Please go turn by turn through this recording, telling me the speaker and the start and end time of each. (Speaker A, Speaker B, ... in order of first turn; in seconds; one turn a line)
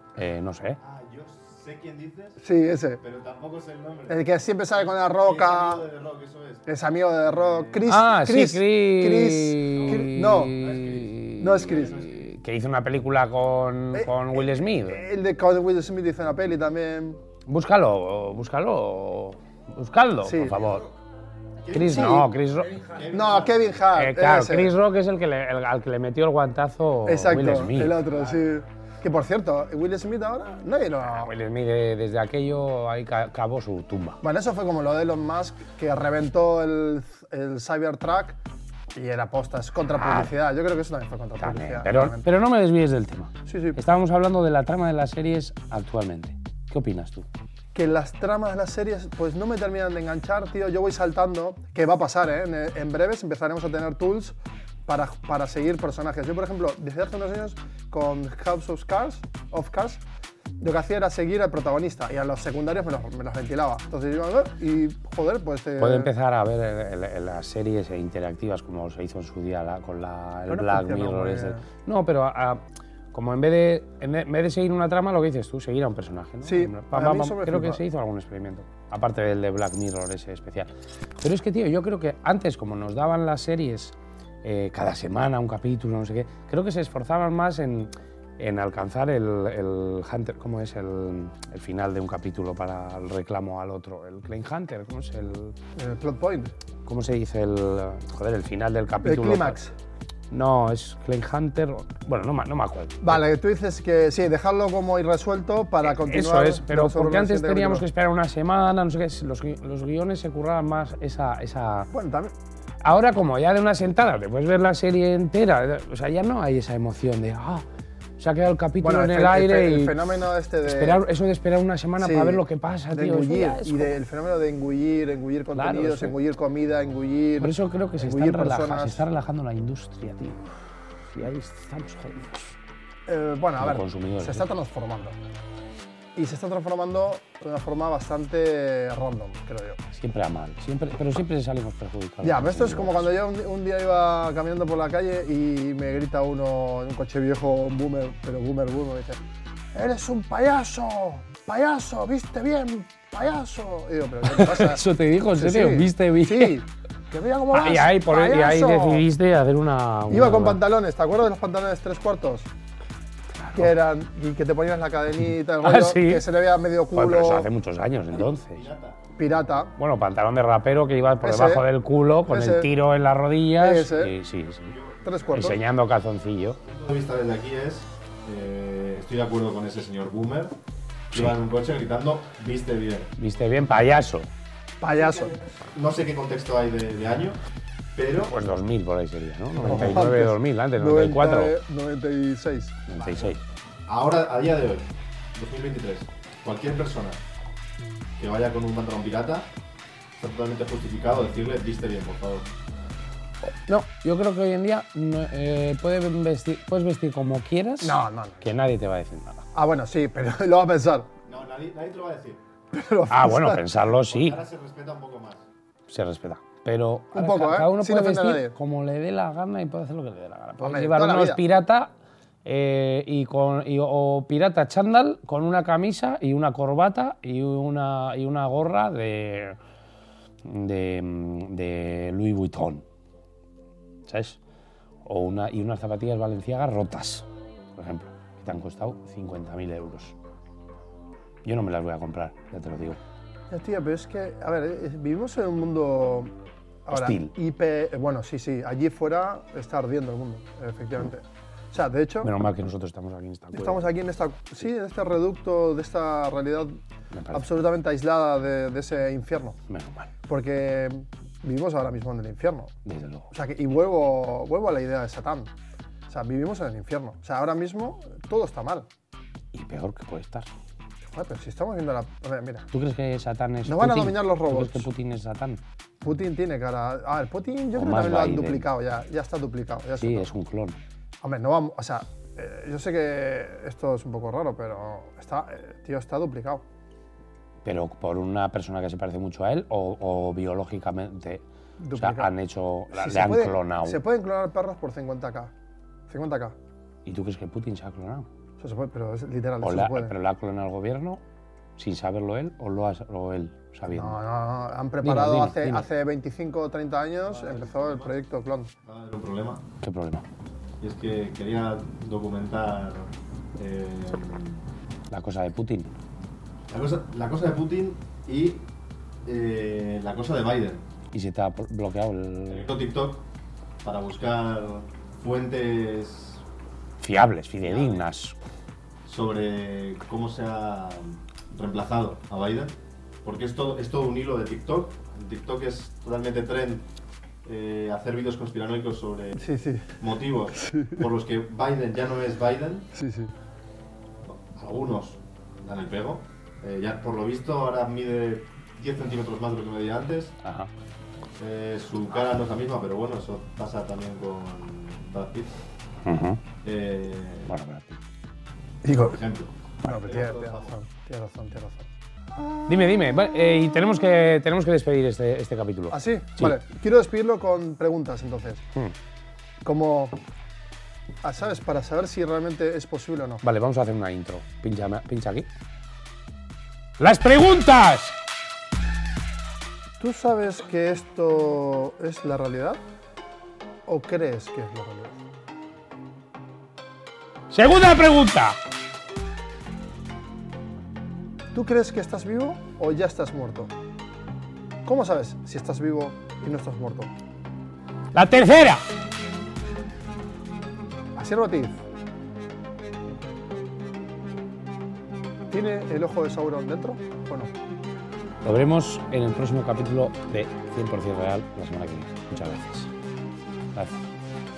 Speaker A: 0.2-0.8
Speaker B: 0.8-2.4
Speaker C: 2.4-3.0
Speaker B: 3.0-4.2
Speaker C: 4.1-5.8
Speaker B: 5.1-6.7
Speaker C: 6.7-10.6
Speaker A: 7.9-15.1
Speaker B: 9.7-12.3
Speaker C: 11.4-12.0
Speaker C: 13.9-17.2
Speaker A: 17.5-20.9
Speaker C: 20.2-20.6
Speaker B: 21.6-23.8
Speaker A: 21.7-22.9
Speaker C: 21.7-22.3
Speaker C: 23.1-24.7
Speaker A: 23.9-28.0
Speaker C: 27.1-31.3
Speaker A: 31.0-34.2
Speaker C: 34.2-38.4
Speaker C: 38.9-42.3
Speaker A: 39.9-40.3
Speaker A: 41.4-47.3
Speaker C: 43.5-43.8
Speaker C: 47.7-54.4
Speaker C: 54.9-60.0
Speaker C: 60.6-66.1
Speaker A: 65.8-95.6
Speaker C: 70.5-71.7
Speaker C: 76.4-77.8
Speaker C: 95.8-96.5
Speaker A: 96.8-99.6
Speaker C: 99.0-99.7
Speaker A: 100.3-103.2
Speaker C: 103.0-107.9
Speaker A: 105.8-111.9
Speaker C: 111.9-112.3
Speaker A: 112.8-117.7
Speaker A: 118.2-120.1
Speaker C: 118.8-121.0
Speaker A: 120.6-124.0
Speaker C: 122.0-129.0
Speaker A: 125.6-126.2
Speaker A: 127.4-132.5
Speaker C: 133.1-135.2
Speaker A: 133.6-134.5
Speaker C: 136.2-139.8
Speaker A: 139.9-143.1
Speaker C: 142.2-149.2
Speaker C: 149.7-159.1
Speaker A: 154.2-156.6
Speaker A: 157.5-160.6
Speaker C: 160.1-162.5
Speaker A: 163.3-163.8
Speaker C: 163.5-167.5
Speaker A: 165.6-166.3
Speaker A: 166.9-168.7
Speaker B: 168.2-169.0
Speaker C: 169.2-169.7
Speaker A: 169.8-174.7
Speaker C: 171.2-171.7
Speaker C: 172.3-172.7
Speaker C: 173.6-174.2
Speaker B: 174.7-175.6
Speaker C: 175.0-175.6
Speaker A: 175.3-176.6
Speaker B: 176.6-180.6
Speaker B: 181.1-183.8
Speaker A: 183.2-184.3
Speaker C: 184.8-185.4
Speaker B: 185.0-187.4
Speaker B: 187.9-188.3
Speaker A: 188.2-191.6
Speaker C: 189.6-192.8
Speaker A: 192.9-193.4
Speaker B: 192.9-197.2
Speaker B: 198.2-199.5
Speaker B: 200.2-202.5
Speaker A: 203.4-209.5
Speaker C: 207.8-208.5
Speaker C: 209.5-211.1
Speaker B: 211.3-212.4
Speaker C: 212.7-213.7
Speaker A: 213.1-214.4
Speaker B: 213.9-215.4
Speaker A: 215.9-221.9
Speaker C: 217.1-218.6
Speaker C: 220.6-221.4
Speaker A: 222.4-229.6
Speaker A: 230.4-232.8
Speaker A: 234.1-234.4
Speaker A: 235.1-240.2
Speaker A: 241.4-243.0
Speaker C: 243.5-246.3
Speaker C: 246.9-252.3
Speaker A: 246.9-247.3
Speaker A: 252.2-253.9
Speaker C: 253.5-256.8
Speaker A: 257.1-257.5
Speaker C: 257.3-259.6
Speaker A: 259.7-260.1
Speaker C: 260.3-262.8
Speaker A: 262.9-263.3
Speaker C: 263.3-265.5
Speaker C: 266.1-268.9
Speaker A: 269.5-270.5
Speaker C: 271.1-272.7
Speaker A: 272.7-275.6
Speaker C: 273.6-274.9
Speaker C: 276.0-280.3
Speaker A: 277.7-278.7
Speaker A: 280.0-280.8
Speaker C: 281.2-286.6
Speaker A: 287.6-291.4
Speaker C: 291.8-292.3
Speaker A: 292.0-294.0
Speaker C: 292.9-295.5
Speaker C: 296.1-296.6
Speaker A: 297.1-298.3
Speaker C: 298.6-300.1
Speaker A: 299.6-301.2
Speaker A: 301.8-304.2
Speaker C: 303.9-308.7
Speaker A: 305.0-305.9
Speaker B: 307.2-308.1
Speaker B: 308.9-309.6
Speaker A: 309.8-310.3
Speaker B: 310.8-314.7
Speaker A: 315.1-315.9
Speaker B: 316.7-318.7
Speaker B: 319.2-320.9
Speaker A: 321.1-322.7
Speaker B: 322.5-323.2
Speaker B: 323.8-326.4
Speaker A: 327.0-328.4
Speaker B: 327.6-328.1
Speaker B: 329.1-336.9
Speaker B: 337.4-339.4
Speaker C: 339.4-340.0
Speaker B: 340.0-342.9
Speaker C: 340.6-341.0
Speaker C: 342.9-343.3
Speaker B: 344.2-350.4
Speaker A: 350.4-350.7
Speaker B: 351.4-355.6
Speaker A: 356.1-356.4
Speaker B: 356.6-357.5
Speaker A: 357.5-358.0
Speaker C: 358.8-359.2
Speaker B: 358.9-360.8
Speaker C: 359.8-364.0
Speaker A: 362.7-366.6
Speaker C: 365.9-368.6
Speaker C: 369.6-370.2
Speaker C: 371.2-373.4
Speaker A: 373.4-375.5
Speaker A: 377.0-378.2
Speaker C: 380.0-382.8
Speaker C: 383.9-385.2
Speaker A: 387.5-388.6
Speaker C: 391.5-393.7
Speaker C: 394.9-397.1
Speaker A: 398.1-398.8
Speaker C: 401.2-401.8
Speaker C: 405.5-407.5
Speaker A: 408.4-412.9
Speaker A: 413.7-414.1